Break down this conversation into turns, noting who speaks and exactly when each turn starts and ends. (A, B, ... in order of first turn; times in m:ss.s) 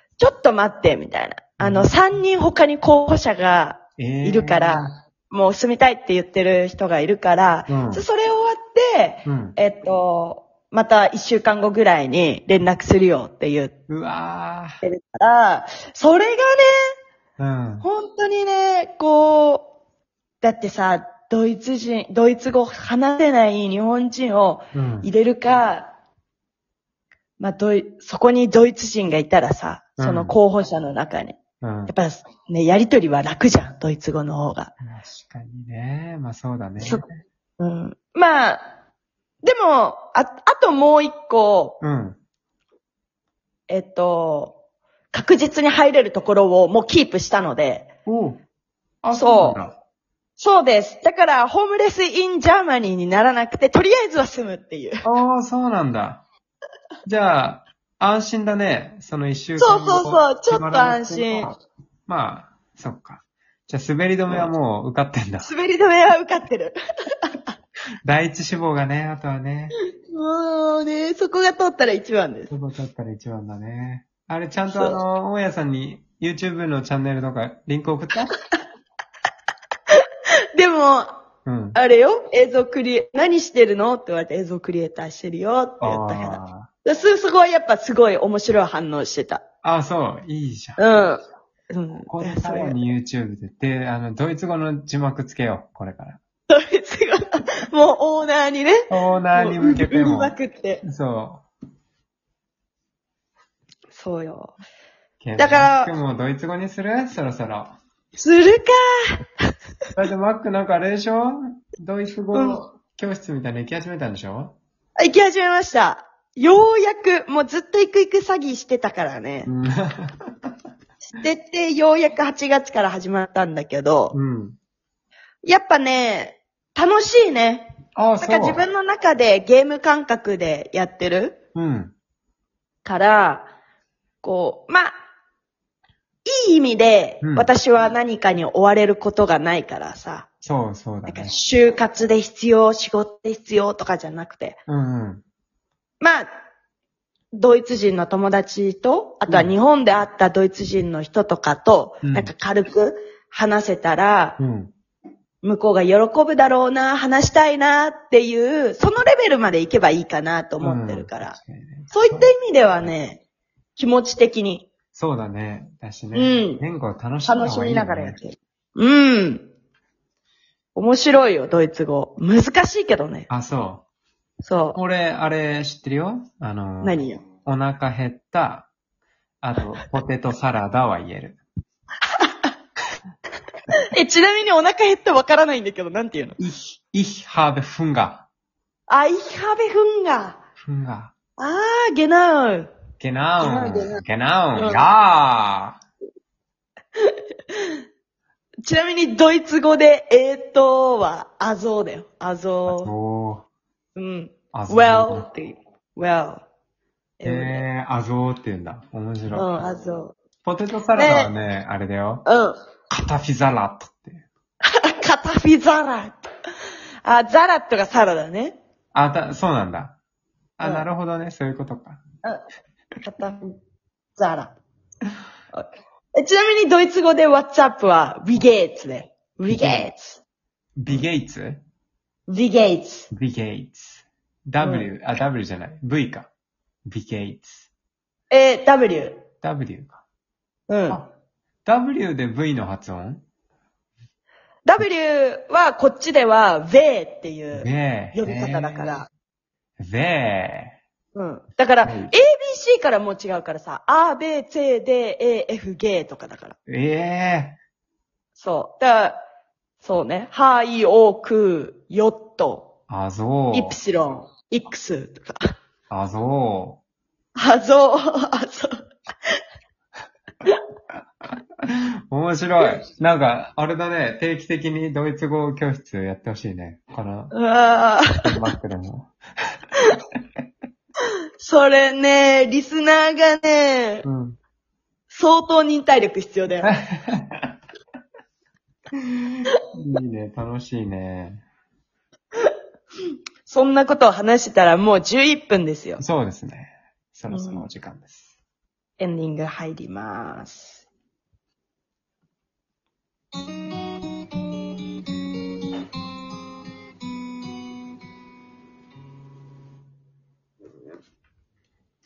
0:00.2-0:13.7 A
0:01.6-0:01.9 B
0:04.0-0:04.9 B
0:07.7-0:08.0 B
0:09.2-0:09.6 B
0:13.9-0:14.8 B
0:14.8-0:16.9 A
0:17.4-0:17.9 B
0:17.8-0:19.7 A
0:20.4-0:25.9 A
0:24.7-0:25.1 B
0:27.4-0:34.7 A
0:30.0-0:30.3 B
0:31.6-0:31.9 B
0:34.8-0:37.0 B
0:37.6-0:38.6 A
0:39.4-0:41.8 A
0:41.8-0:42.2 B
0:43.7-0:44.6 A
0:45.1-0:47.9 A
0:48.0-0:48.4 B
0:49.0-0:49.7 B
0:49.1-0:49.6 A
0:50.4-0:55.0 A
0:55.0-0:56.2 B
0:57.0-1:05.5 B
0:59.6-1:01.5 A
1:05.4-1:07.4 A
1:08.0-1:09.7 B
1:10.1-1:12.5 A
1:12.5-1:18.3 B
1:20.6-1:21.1 A
1:21.4-1:21.8 B
1:21.7-1:29.4 A
1:25.8-1:26.7 B
1:29.6-1:31.0 B
1:30.8-1:31.2 A
1:31.7-1:32.8 A
1:32.1-1:36.2 B
1:36.5-1:40.8 A
1:38.9-1:41.4 B
1:43.9-1:44.6 A
1:45.2-1:47.8 B
1:45.4-1:45.9 A
1:48.2-1:49.2 A
1:49.9-1:54.6 B
1:52.3-1:52.6 A
1:55.0-1:59.5 A
1:59.4-2:00.5 B
2:01.1-2:04.2 A
2:04.1-2:04.6 B
2:05.4-2:11.4 A
2:08.0-2:08.6 B
2:11.5-2:11.9 B
2:12.8-2:13.5 A
2:14.2-2:14.9 A
2:16.2-2:20.3 A
2:17.2-2:17.5 B
2:20.4-2:21.3 B
2:21.0-2:24.6 A
2:24.7-2:25.2 B
2:26.0-2:26.3 A
2:27.4-2:34.4 A
2:29.3-2:29.5 B
2:32.0-2:32.3 B
2:34.4-2:34.7 B
2:35.4-2:41.3 A
2:40.6-2:42.3 B
2:41.9-2:43.2 A
2:43.8-2:44.7 A
2:44.9-2:48.2 B
2:46.1-2:46.6 A
2:47.2-2:49.4 A
2:50.7-2:53.3 A
2:53.3-2:53.8 B
2:54.4-2:54.8 A
2:54.7-2:58.7 B
2:56.8-2:57.2 A
2:59.4-3:01.4 B
3:02.1-3:02.5 A
3:03.9-3:06.4 A
3:06.4-3:08.2 B
3:08.9-3:10.4 A
3:10.6-3:11.1 B
3:11.4-3:12.7 A
3:13.0-3:15.8 B
3:13.4-3:14.0 A
3:14.6-3:14.9 A
3:17.1-3:17.6 A
3:18.6-3:22.9 A
3:22.7-3:23.4 B
3:23.9-3:26.4 A
3:24.5-3:25.3 B
3:27.2-3:27.6 A
3:27.2-3:29.5 B
3:29.3-3:30.2 A
3:30.4-3:32.2 B
3:30.9-3:31.3 A
3:32.2-3:32.5 A
3:32.9-3:34.2 B
3:34.6-3:36.3 A
3:37.0-3:38.6 A
3:38.9-3:40.0 B
3:40.6-3:42.0 B
3:43.0-3:43.5 A
3:44.2-3:44.5 A
3:45.5-3:50.2 A
3:49.5-3:49.8 B
3:50.8-3:51.6 B
3:52.3-3:53.1 A
3:53.1-3:56.3 B
3:54.6-3:54.9 A
3:56.8-3:57.7 B
3:58.3-3:59.2 A
3:59.4-4:00.0 B
4:00.7-4:01.0 A
4:01.6-4:03.2 B
4:04.6-4:09.1 A
4:07.5-4:09.0 B
4:09.8-4:10.8 B
4:11.1-4:16.6 A
4:11.8-4:12.1 B
4:16.7-4:17.6 B
4:18.4-4:19.2 A
4:19.8-4:22.7 A
4:22.9-4:23.8 B
4:23.5-4:25.4 A
4:25.9-4:26.8 B
4:27.4-4:28.8 A
4:31.6-4:37.3 B
4:37.3-4:38.4 A
4:38.2-4:39.1 B
4:41.4-4:44.0 A
4:44.0-4:44.4 B
4:45.1-4:46.7 A
4:46.6-4:47.6 B
4:49.7-4:51.4 B
4:53.4-4:56.0 A
4:56.0-4:58.2 B
4:57.3-4:57.6 A
4:59.0-5:00.8 A